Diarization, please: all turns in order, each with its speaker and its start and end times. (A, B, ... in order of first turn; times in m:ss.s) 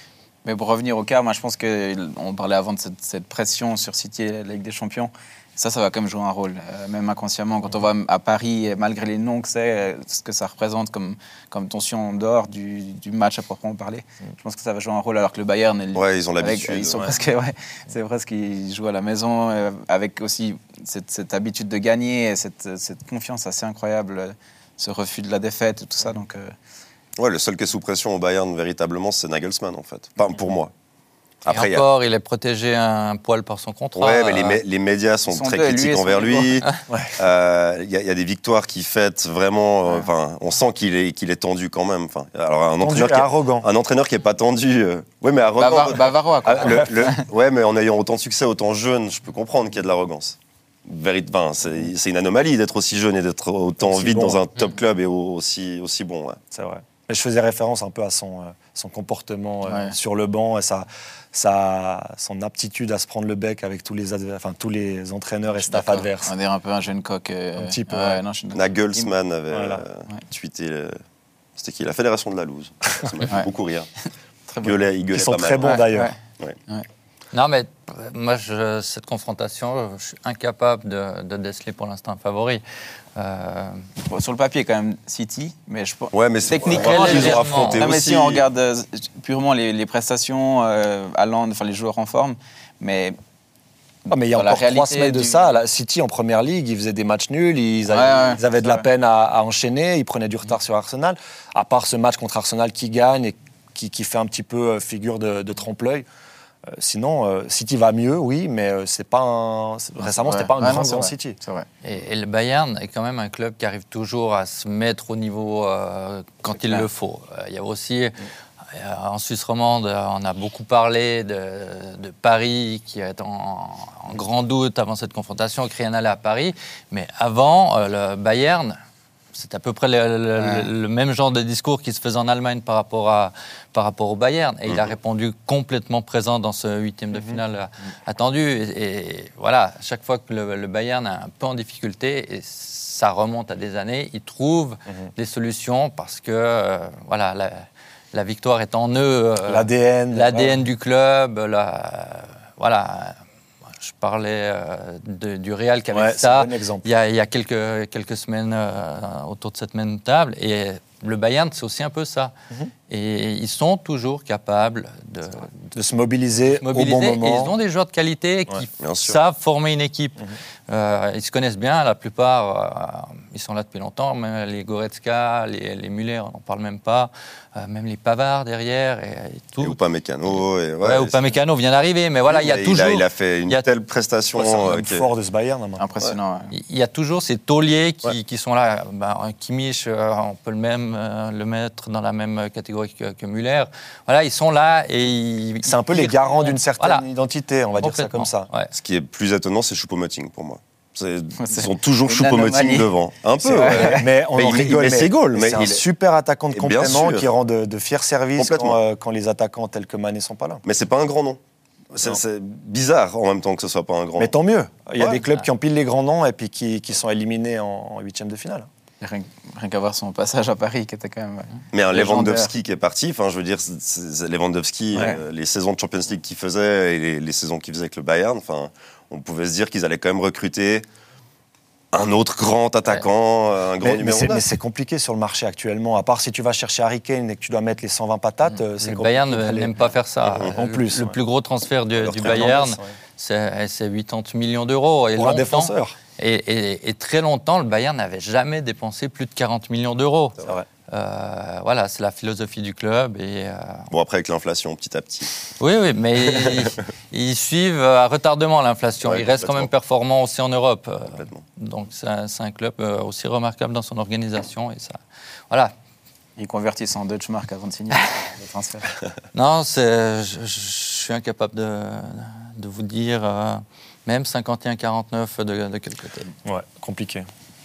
0:00.4-0:26.5 A
0:15.9-0:17.0 B
0:27.2-0:30.7 B
0:31.4-0:31.9 B
0:31.5-0:34.6 C
0:34.0-0:56.4 B
0:35.3-0:36.7 A
0:36.9-0:37.2 D
0:42.8-0:43.7 D
0:45.6-0:47.2 A
0:53.8-0:54.4 D
0:56.5-1:06.3 D
0:59.7-1:00.0 A
1:05.7-1:09.1 A
1:07.6-1:08.2 D
1:08.5-1:11.0 B
1:09.5-1:09.8 D
1:11.6-1:13.9 B
1:14.5-1:14.8 A
1:14.6-1:15.8 B
1:15.1-1:16.1 D
1:15.6-1:16.2 A
1:17.3-1:22.6 C
1:23.2-1:23.8 C
1:24.1-1:33.2 A
1:26.1-1:28.4 B
1:26.8-1:27.9 C
1:27.0-1:27.5 D
1:34.1-1:46.1 D
1:34.3-1:35.5 A
1:37.9-1:38.8 A
1:46.7-1:51.4 D
1:50.0-1:51.7 A
1:51.8-1:58.2 C
1:56.6-1:56.9 A
1:58.7-2:08.8 C
2:09.3-2:33.2 C
2:10.4-2:10.7 A
2:17.1-2:17.4 D
2:29.5-2:30.7 D
2:33.8-2:42.3 C
2:35.9-2:36.9 D
2:42.9-2:45.7 C
2:45.7-2:47.6 D
2:46.5-3:03.7 C
2:48.8-2:49.2 B
2:59.6-3:01.3 B
3:02.3-3:05.1 B
3:04.4-3:05.9 D
3:05.8-3:06.5 A
3:06.5-3:17.1 C
3:15.6-3:18.5 D
3:17.8-3:18.7 C
3:18.7-3:25.8 B
3:21.4-3:24.1 A
3:23.4-3:30.6 D
3:26.5-3:27.3 B
3:28.4-3:28.8 B
3:30.6-3:31.4 B
3:31.9-3:34.3 B
3:34.2-3:38.7 D
3:39.0-3:42.5 A
3:41.7-3:50.9 B
3:45.0-3:45.2 A
3:51.9-3:54.4 B
3:53.8-3:59.8 D
3:58.5-4:13.9 C
4:00.2-4:00.5 B
4:00.5-4:01.2 D
4:02.0-4:02.5 B
4:02.2-4:02.9 D
4:05.2-4:06.0 D
4:13.9-4:15.3 B
4:15.6-4:25.0 C
4:19.0-4:19.7 B
4:26.4-4:28.9 A
4:29.3-4:36.3 C
4:36.4-4:37.2 D